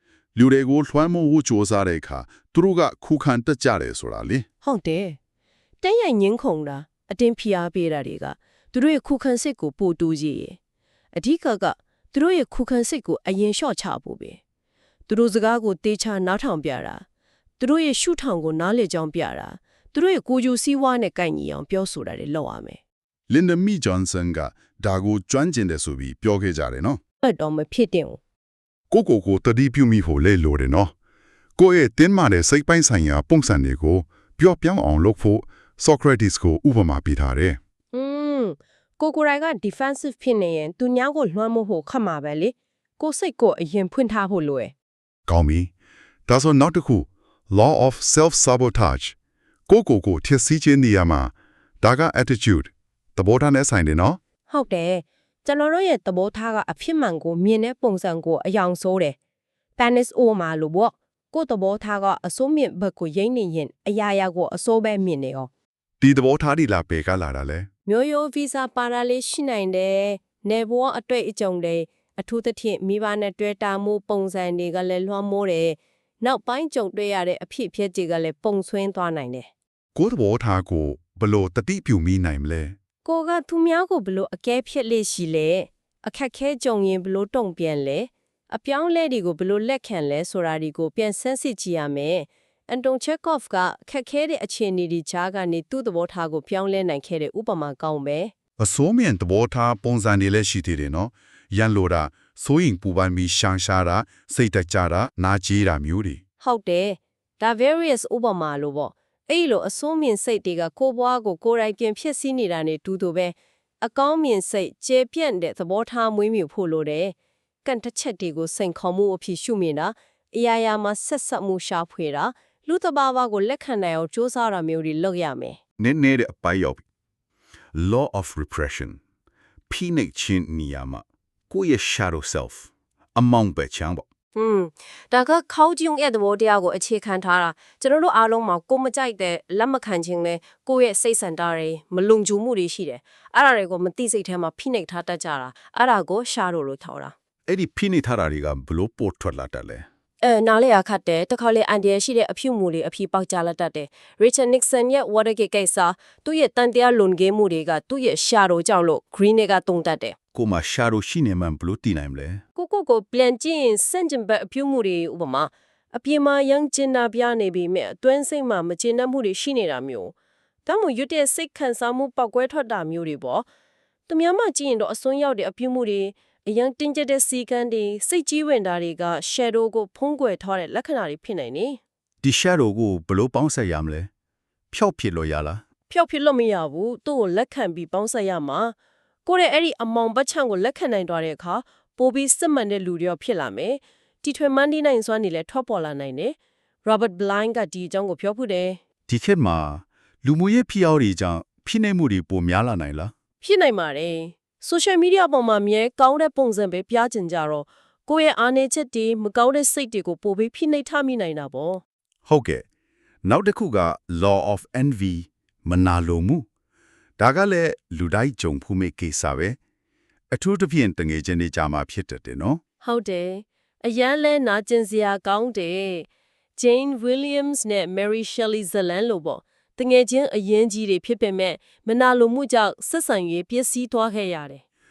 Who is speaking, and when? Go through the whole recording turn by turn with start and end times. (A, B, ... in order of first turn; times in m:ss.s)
0:00.3-0:04.5 A
0:04.6-0:05.2 B
0:05.8-0:10.6 B
0:11.1-0:14.4 B
0:15.1-0:17.0 B
0:17.6-0:22.8 B
0:23.3-0:27.0 A
0:27.2-0:28.2 B
0:28.9-0:30.9 A
0:31.6-0:37.6 A
0:37.9-0:44.7 B
0:45.3-0:45.7 A
0:46.3-0:49.1 A
0:49.7-0:54.2 A
0:54.5-0:59.2 B
0:59.8-1:05.5 B
1:06.0-1:07.7 A
1:07.8-1:19.5 B
1:19.9-1:22.8 A
1:23.0-1:38.3 B
1:38.6-1:46.2 A
1:46.4-2:05.6 B
2:05.8-2:06.8 A
2:07.7-2:09.0 A
2:09.7-2:14.0 A
2:14.3-2:27.1 B
2:27.5-2:29.9 A
2:30.2-2:40.2 B
2:40.3-2:42.4 A
2:42.6-2:50.1 B
2:50.6-2:53.5 B
2:54.1-3:01.8 B
3:02.2-3:04.1 A
3:04.7-3:05.6 A
3:05.9-3:08.7 B
3:09.2-3:18.8 B
3:19.1-3:23.1 A
3:23.4-3:31.8 B
3:32.2-3:32.6 A
3:33.2-3:36.5 A
3:37.2-3:39.6 A
3:40.3-3:42.6 A
3:42.8-3:54.6 B